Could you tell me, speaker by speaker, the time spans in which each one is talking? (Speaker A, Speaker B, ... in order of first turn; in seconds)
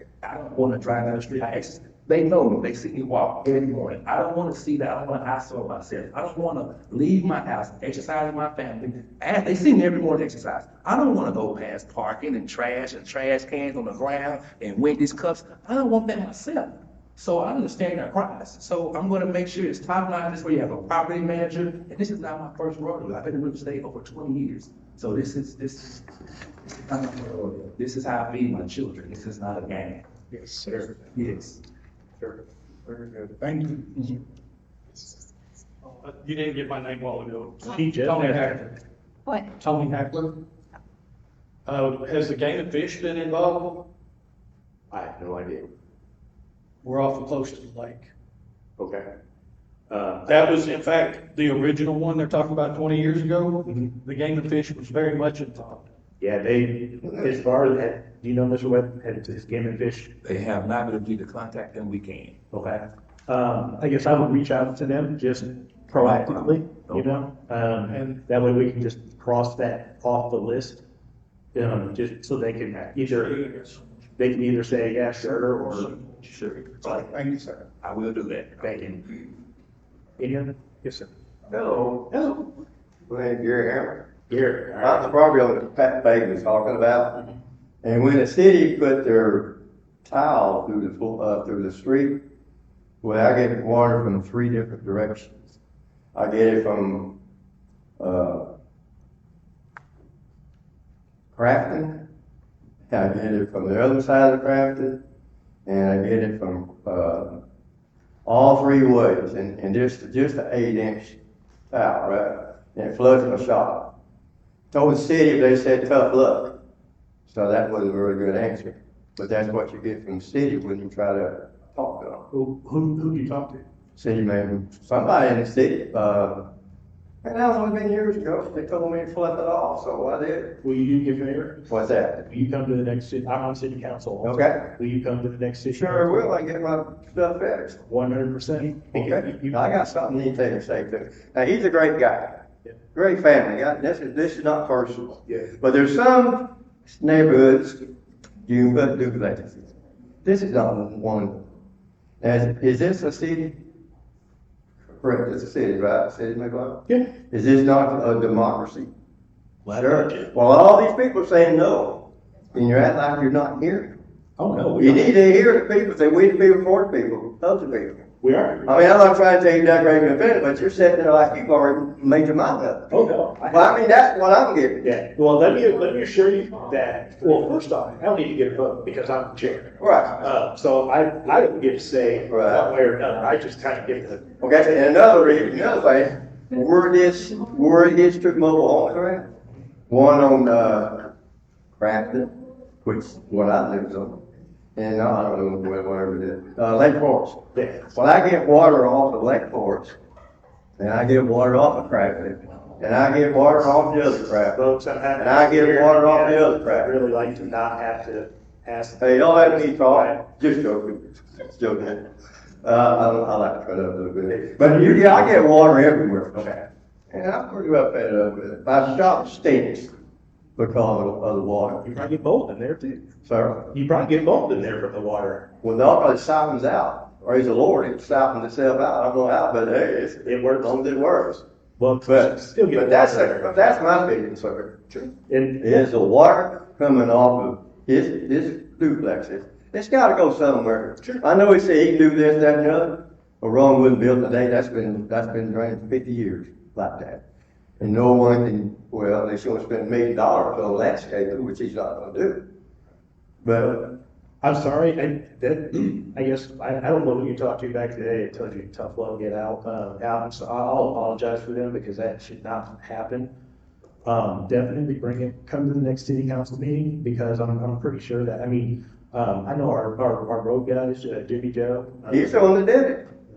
Speaker A: 0.2-26.1, 26.7-30.1, 31.1-31.6, 60.2-62.4, 66.0-67.2, 76.1-77.2, 77.8-79.0
Speaker B: 30.3-30.9, 32.9-34.2, 76.8-77.7
Speaker C: 36.0-38.8, 39.5-40.4, 41.7-43.9, 46.8-48.1, 50.3-55.9, 67.9-68.2
Speaker D: 37.6-38.6, 44.9-45.7, 48.8-49.1, 49.9-50.8, 56.2-60.1, 62.5-70.8, 71.5-76.0, 78.6-79.0, 80.2-81.1, 82.1-82.5, 84.3-85.1, 122.3-123.6, 130.6-131.7, 132.2-136.3, 137.9-139.7, 159.7-160.3, 164.4-165.2, 168.2-168.8, 172.9-173.8, 174.8-184.3, 197.6-197.9, 204.6-210.3, 221.8-223.1, 223.7-225.5, 230.2-230.8, 231.8-233.8, 235.0-235.8, 254.4-263.3, 264.1-272.5
Speaker E: 81.5-82.2, 83.1-84.1, 84.8-87.3, 87.8-92.2, 93.0-95.6, 96.1-97.2, 98.0-98.5, 101.3-102.1, 102.9-105.0, 105.7-107.4, 108.2-111.2, 111.7-114.0, 114.7-116.6, 117.3-122.3, 124.0-126.5, 127.2-130.6, 131.7-132.2, 134.2-134.7, 135.7-137.8, 138.9-147.9, 148.4-151.5, 152.2-153.6, 154.9-158.9, 159.7-164.0, 164.8-168.0, 168.7-174.9, 179.8-180.2, 182.3-182.7, 184.4-189.3, 189.9-191.1, 191.8-192.3, 192.8-194.2, 194.8-200.0, 200.8-204.6, 205.2-206.9, 209.0-219.9, 220.6-221.9, 223.2-223.8, 225.6-231.4, 232.1-234.9, 235.6-247.2, 247.8-252.5, 253.4-254.0, 272.1-273.1